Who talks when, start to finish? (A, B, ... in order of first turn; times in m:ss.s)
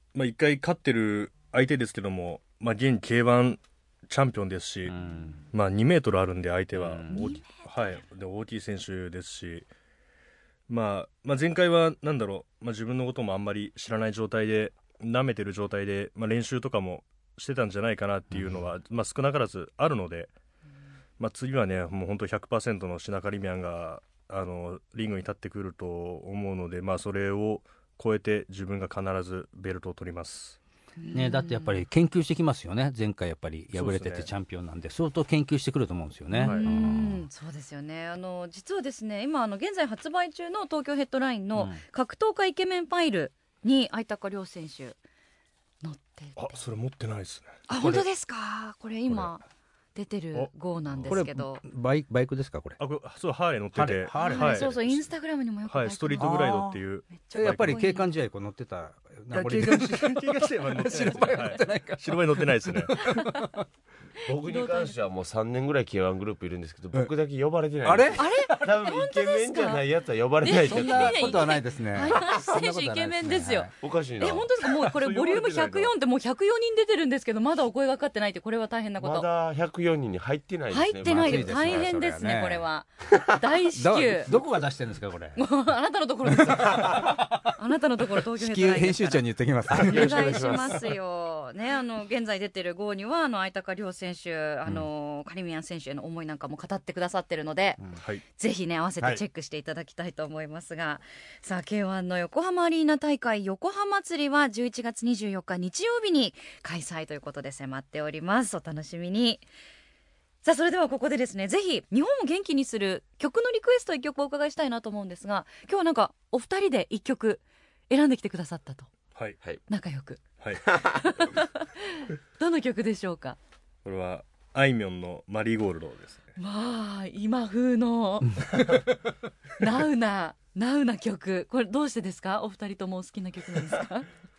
0:00.1-0:05.0 A
0:04.9-0:05.4 B
0:05.5-0:09.7 A
0:06.8-0:07.4 B
0:07.1-0:07.6 C
0:10.7-0:20.3 A
0:21.2-0:30.6 A
0:31.0-0:31.8 C
0:31.1-0:37.3 B
0:33.7-0:34.3 A
0:36.3-0:45.0 C
0:41.6-0:41.8 B
0:45.8-0:46.6 C
0:46.4-0:47.6 A
0:47.7-0:49.4 C
0:47.8-0:48.1 B
0:50.0-0:51.6 C
0:50.3-0:51.2 A
0:51.1-0:52.8 B
0:52.8-0:55.1 A
0:53.8-0:54.8 B
0:54.2-0:56.4 C
0:55.7-0:57.8 A
0:56.2-0:56.8 B
0:57.1-0:58.1 C
0:57.3-1:03.6 B
0:59.3-1:03.0 A
1:03.0-1:03.5 C
1:04.2-1:11.5 D
1:04.4-1:05.0 C
1:07.8-1:08.7 B
1:08.2-1:09.8 C
1:10.4-1:19.3 C
1:10.5-1:13.7 B
1:13.8-1:15.9 D
1:19.0-1:21.9 D
1:20.7-1:24.4 C
1:21.0-1:22.6 B
1:23.8-1:25.4 B
1:25.4-1:37.8 C
1:26.3-1:27.5 B
1:28.3-1:30.8 B
1:29.7-1:30.9 D
1:38.3-1:49.4 C
1:50.4-1:58.9 C
1:59.7-2:00.2 C
2:00.4-2:00.8 A
2:00.7-2:01.0 D
2:00.9-2:03.4 C
2:03.8-2:06.3 A
2:06.4-2:08.7 C
2:09.6-2:14.1 C